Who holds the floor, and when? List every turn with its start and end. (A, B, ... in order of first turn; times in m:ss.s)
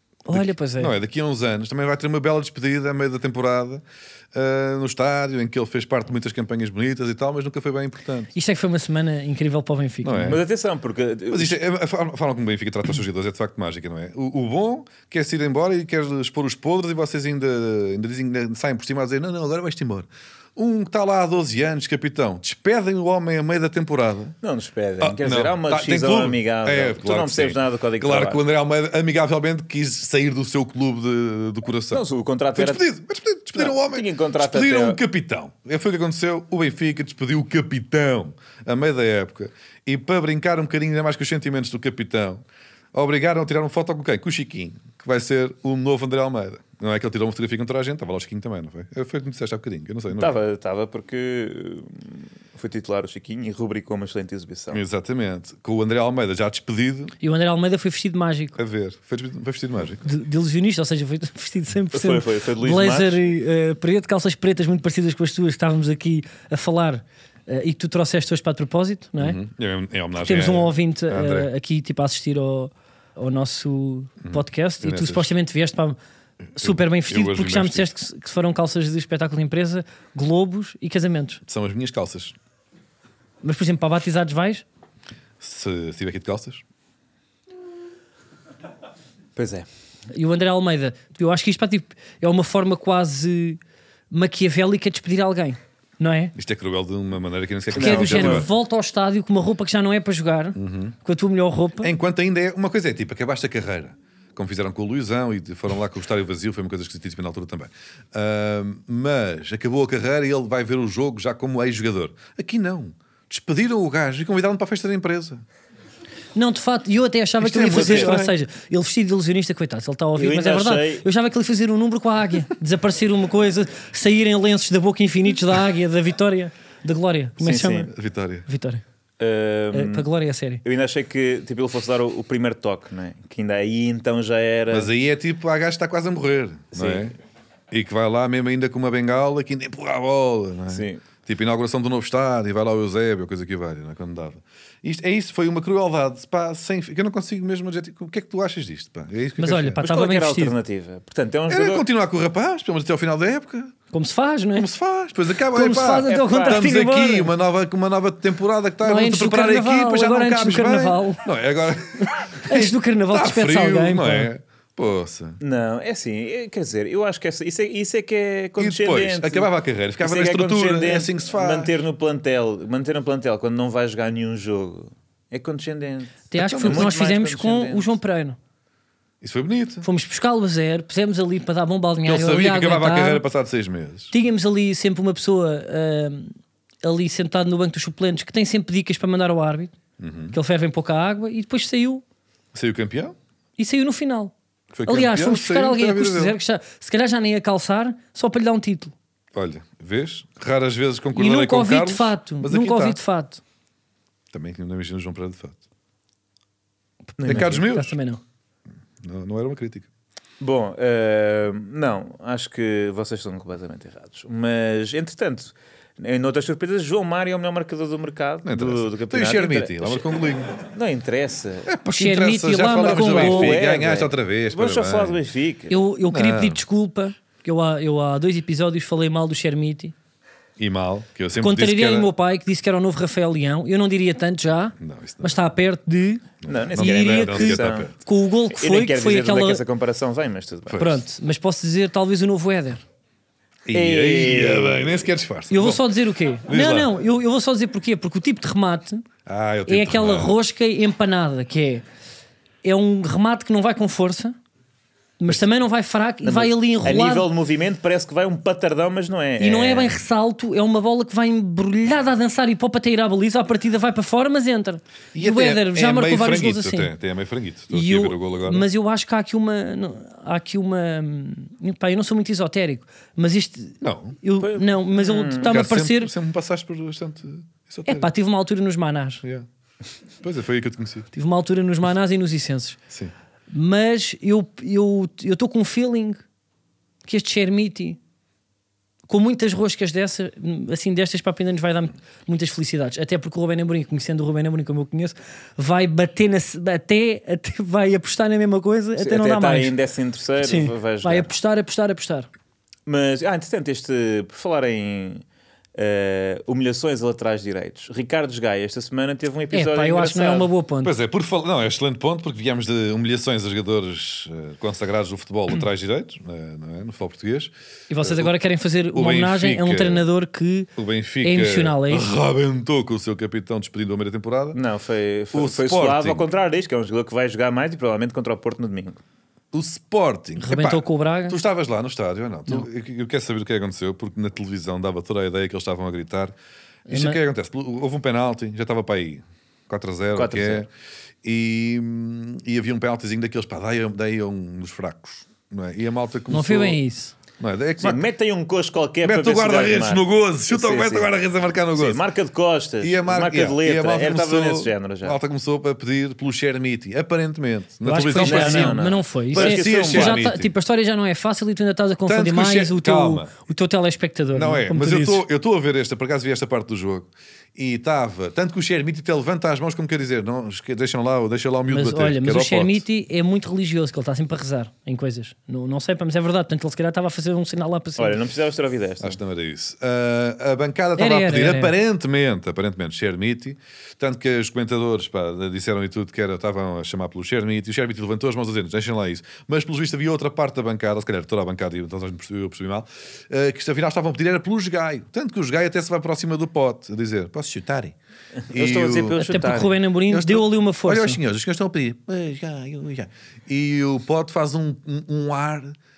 0:00.2-0:00.9 A
0:00.3-0:08.3 B
0:08.3-0:10.4 A
0:10.0-0:10.4 B
0:10.3-0:11.6 C
0:11.3-0:24.3 B
0:24.4-0:28.4 C
0:25.0-0:32.0 B
0:31.9-0:32.8 C
0:32.5-0:50.4 B
0:33.5-0:35.0 C
0:50.1-0:54.8 C
0:54.7-0:57.1 B
0:57.2-0:58.6 A
0:58.6-1:00.1 B
1:00.0-1:09.4 A
1:01.9-1:03.2 C
1:09.2-1:11.5 B
1:10.2-1:16.0 A
1:14.2-1:15.3 B
1:16.5-1:17.9 B
1:16.5-1:21.4 A
1:21.4-1:22.3 B
1:23.4-1:24.6 A
1:25.4-1:26.6 B
1:29.4-1:29.7 C
1:30.1-1:33.6 A
1:34.1-1:36.3 A
1:36.4-1:38.5 B
1:37.7-1:38.5 C
1:37.7-1:41.9 A
1:40.6-1:41.0 B
1:41.8-1:55.4 B
1:56.3-2:07.9 A
1:57.4-1:58.3 B
1:57.6-1:58.2 C
2:00.2-2:01.0 C
2:07.4-2:07.9 C
2:07.9-2:08.4 B
2:08.4-2:08.8 A
2:09.2-2:10.1 C
2:09.7-2:10.6 A
2:10.6-2:14.9 C
2:14.7-2:17.1 B
2:16.7-2:17.1 C
2:17.7-2:29.8 B
2:20.7-2:21.0 C
2:29.4-2:30.5 A
2:29.8-2:31.8 C
2:31.5-2:33.7 B
2:33.9-2:34.7 A
2:34.5-2:45.4 B
2:35.5-2:37.3 A
2:36.1-2:36.6 C
2:38.8-2:41.2 A
2:42.4-2:44.3 A
2:45.4-2:49.5 C
2:48.6-2:51.7 B
2:50.0-2:58.0 C
2:56.3-2:58.4 A
2:56.4-2:56.9 B
2:59.2-2:59.8 B
2:59.8-3:03.2 A
3:02.0-3:04.1 B
3:04.1-3:09.7 A
3:10.0-3:10.4 B
3:10.3-3:12.0 A
3:12.5-3:13.2 B
3:13.6-3:14.3 A
3:14.7-3:16.4 B
3:14.8-3:18.9 A
3:19.3-3:23.0 B
3:21.1-3:23.4 A
3:24.3-3:25.6 B
3:27.2-3:27.6 C
3:27.2-3:28.2 A
3:27.2-3:28.0 B
3:29.0-3:29.9 B
3:30.4-3:41.7 C
3:38.4-3:40.6 B
3:41.6-3:45.2 B
3:41.9-3:43.5 A
3:42.7-3:45.8 C
3:45.7-3:49.9 A
3:46.1-3:46.6 B
3:50.6-3:52.1 B
3:51.4-3:56.2 A
3:54.8-3:55.4 B
3:56.4-3:57.9 B
3:56.5-3:57.9 C
3:56.8-3:59.6 A
3:58.5-4:00.8 C
4:00.7-4:01.0 B
4:00.8-4:02.8 A
4:03.6-4:05.8 B
4:03.7-4:05.1 C
4:05.5-4:09.0 A
4:06.5-4:06.9 B
4:09.2-4:10.3 B
4:09.7-4:11.8 A
4:12.6-4:14.4 A
4:15.2-4:17.3 A
4:16.2-4:19.9 C
4:19.4-4:26.9 A
4:25.1-4:28.6 B
4:27.7-4:36.1 A
4:33.8-4:34.2 B
4:34.4-4:35.5 C
4:35.4-4:38.1 B
4:37.9-4:39.2 A
4:40.2-4:41.1 B
4:41.1-4:42.8 A
4:43.5-4:46.2 A
4:47.0-4:48.0 A
4:49.1-4:59.7 A
4:59.0-5:01.3 C
5:00.4-5:02.3 A
5:02.9-5:05.2 C
5:05.8-5:10.5 C
5:09.5-5:10.9 A
5:10.8-5:18.3 B
5:17.9-5:20.7 A
5:18.9-5:20.1 B
5:20.8-5:24.6 B
5:21.2-5:22.1 A
5:24.5-5:29.0 C
5:25.3-5:26.3 B
5:29.5-5:36.3 B
5:30.4-5:31.4 A
5:36.9-5:37.2 A
5:36.9-5:40.7 B
5:40.1-5:40.7 C
5:41.2-5:46.8 B
5:46.3-5:47.1 A
5:47.4-5:48.0 B
5:47.8-5:51.1 C
5:49.0-5:52.0 B
5:51.7-5:55.2 C
5:52.8-6:00.5 B
5:57.8-6:05.2 A
5:58.2-6:00.2 C
6:02.0-6:03.3 B
6:04.3-6:12.8 B
6:11.7-6:18.2 A
6:18.0-6:19.2 C
6:19.0-6:38.0 B
6:21.0-6:21.7 A
6:38.5-6:39.8 C
6:38.5-6:39.2 B
6:39.2-6:41.2 A
6:40.1-6:45.8 B